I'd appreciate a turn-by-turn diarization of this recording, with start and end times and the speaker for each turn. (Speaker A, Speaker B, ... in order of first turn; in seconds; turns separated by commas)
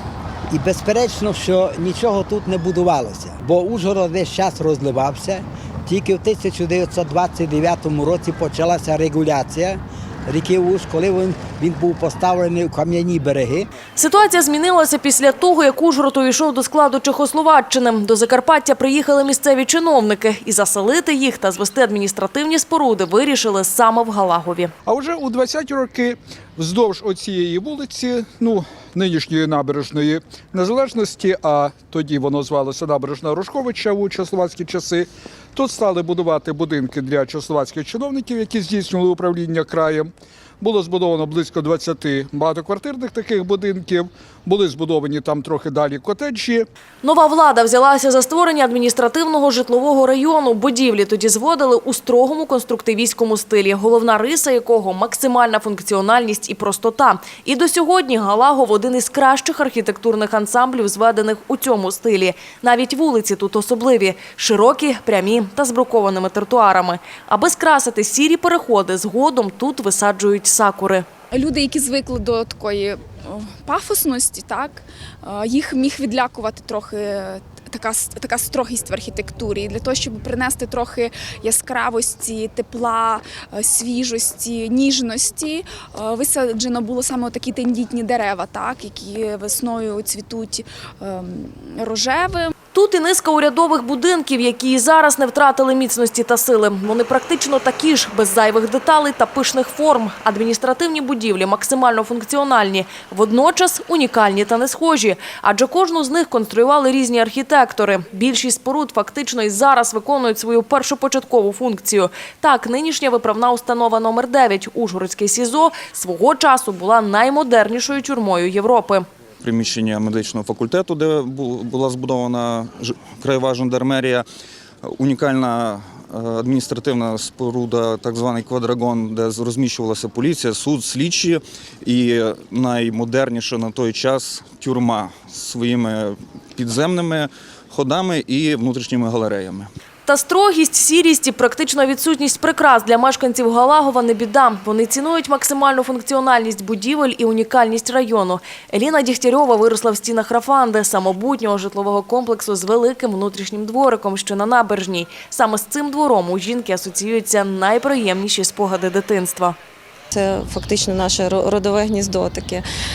Speaker A: 0.5-13.7, Speaker B: 14.0-24.7, Speaker C: 24.9-46.7, Speaker B: 47.0-71.1, Speaker D: 71.3-92.5, Speaker B: 92.7-119.1, Speaker E: 119.4-124.2, Speaker E: 124.8-139.7, Speaker B: 140.1-159.6, Speaker F: 160.1-162.6